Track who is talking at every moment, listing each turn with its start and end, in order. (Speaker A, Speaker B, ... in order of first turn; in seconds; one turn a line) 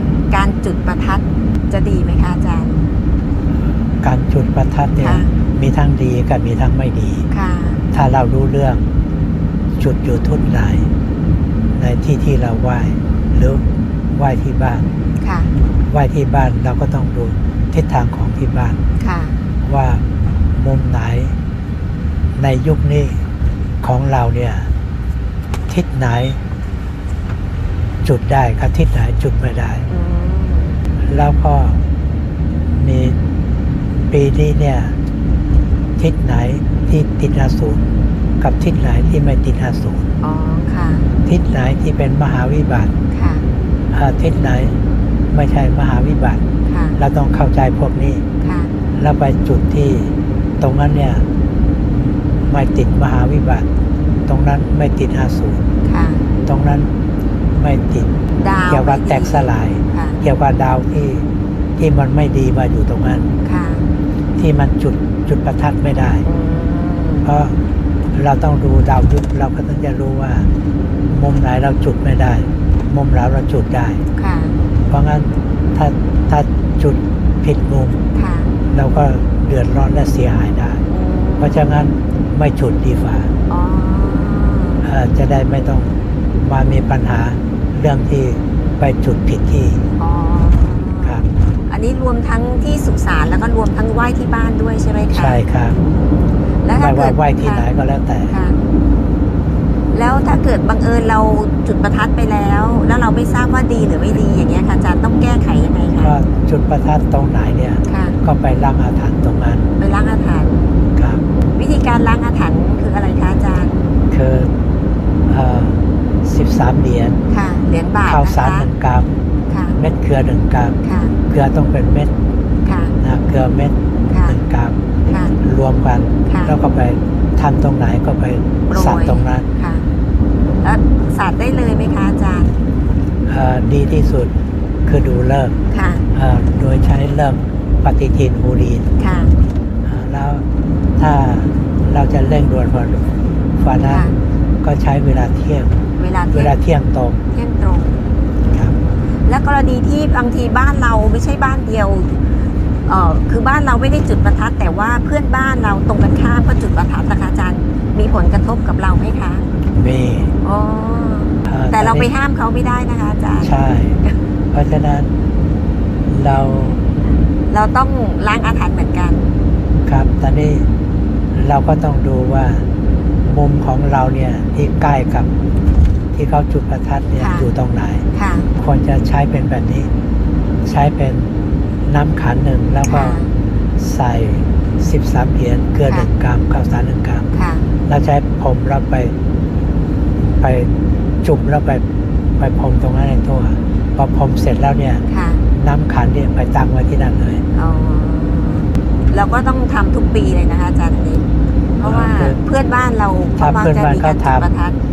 Speaker A: 0.3-2.8
Speaker B: 4.0-7.3
Speaker A: 5.0-5.3
Speaker A: 7.3-7.8
Speaker B: 7.9-8.8
Speaker B: 9.8-10.9
Speaker B: 11.8-13.6
Speaker B: 14.1-14.9
Speaker A: 15.2-15.5
Speaker B: 15.9-18.8
Speaker A: 19.0-19.4
Speaker B: 19.6-20.0
Speaker B: 20.5-21.3
Speaker B: 22.4-23.2
Speaker B: 23.8-24.7
Speaker B: 25.7-26.4
Speaker B: 28.0-29.8
Speaker A: 29.9-30.8
Speaker B: 31.1-31.8
Speaker B: 32.7-33.1
Speaker B: 34.1-35.0
Speaker B: 36.0-37.9
Speaker B: 38.4-40.0
Speaker A: 40.2-41.1
Speaker B: 41.2-42.9
Speaker A: 43.1-43.5
Speaker B: 43.9-44.8
Speaker B: 45.3-46.4
Speaker A: 46.6-47.0
Speaker B: 47.0-48.2
Speaker A: 48.4-48.7
Speaker B: 49.0-51.2
Speaker B: 52.0-53.7
Speaker B: 54.3-55.6
Speaker A: 55.8-56.3
Speaker B: 56.4-56.9
Speaker B: 57.5-58.1
Speaker A: 58.4-60.2
Speaker B: 58.7-61.2
Speaker B: 61.8-63.3
Speaker A: 63.4-63.9
Speaker B: 64.4-66.2
Speaker A: 66.2-67.3
Speaker B: 67.2-67.6
Speaker B: 68.1-70.5
Speaker B: 71.1-74.0
Speaker A: 74.2-74.6
Speaker B: 74.9-78.0
Speaker A: 78.1-78.5
Speaker B: 78.7-80.8
Speaker A: 80.9-81.7
Speaker B: 81.4-83.3
Speaker A: 83.5-84.8
Speaker B: 84.8-89.8
Speaker A: 90.0-95.4
Speaker B: 91.0-91.3
Speaker B: 95.1-95.8
Speaker A: 96.6-97.7
Speaker B: 96.7-98.3
Speaker A: 98.3-98.6
Speaker A: 99.9-106.2
Speaker B: 106.0-109.7
Speaker A: 107.9-108.2
Speaker A: 109.8-113.9
Speaker B: 111.0-111.2
Speaker B: 114.1-114.5
Speaker B: 115.3-117.2
Speaker A: 117.3-118.7
Speaker B: 118.0-119.1
Speaker A: 119.5-119.8
Speaker B: 119.8-120.8
Speaker A: 120.8-121.2
Speaker B: 121.3-122.1
Speaker A: 122.6-123.0
Speaker B: 123.0-124.8
Speaker A: 124.1-124.4
Speaker A: 125.1-125.3
Speaker B: 125.4-129.5
Speaker A: 126.2-126.5
Speaker A: 128.7-129.9
Speaker A: 130.6-132.6
Speaker B: 133.3-134.3
Speaker B: 134.8-135.5
Speaker A: 135.7-136.1
Speaker B: 136.1-138.9
Speaker A: 139.0-139.3
Speaker B: 139.8-140.4
Speaker B: 141.0-145.7
Speaker A: 143.9-144.1
Speaker A: 146.0-146.5
Speaker B: 146.3-147.2
Speaker A: 147.3-152.2
Speaker A: 152.8-159.4
Speaker B: 159.8-160.3
Speaker A: 160.4-163.5
Speaker B: 161.5-162.1
Speaker B: 163.4-164.0
Speaker B: 164.5-165.1
Speaker B: 166.1-166.8
Speaker A: 167.5-169.3
Speaker B: 169.8-170.7
Speaker B: 171.3-172.7
Speaker B: 173.2-175.3
Speaker B: 176.1-179.9
Speaker A: 177.2-177.5
Speaker A: 178.1-178.5
Speaker B: 180.6-181.3
Speaker B: 181.8-183.2
Speaker A: 182.8-183.3
Speaker B: 183.8-187.3
Speaker A: 187.3-187.7
Speaker B: 187.9-189.2
Speaker B: 190.4-190.7
Speaker B: 191.2-191.8
Speaker B: 192.4-197.4
Speaker A: 195.1-195.4
Speaker A: 197.5-201.2
Speaker A: 201.8-204.8
Speaker B: 201.8-202.4
Speaker B: 203.4-204.5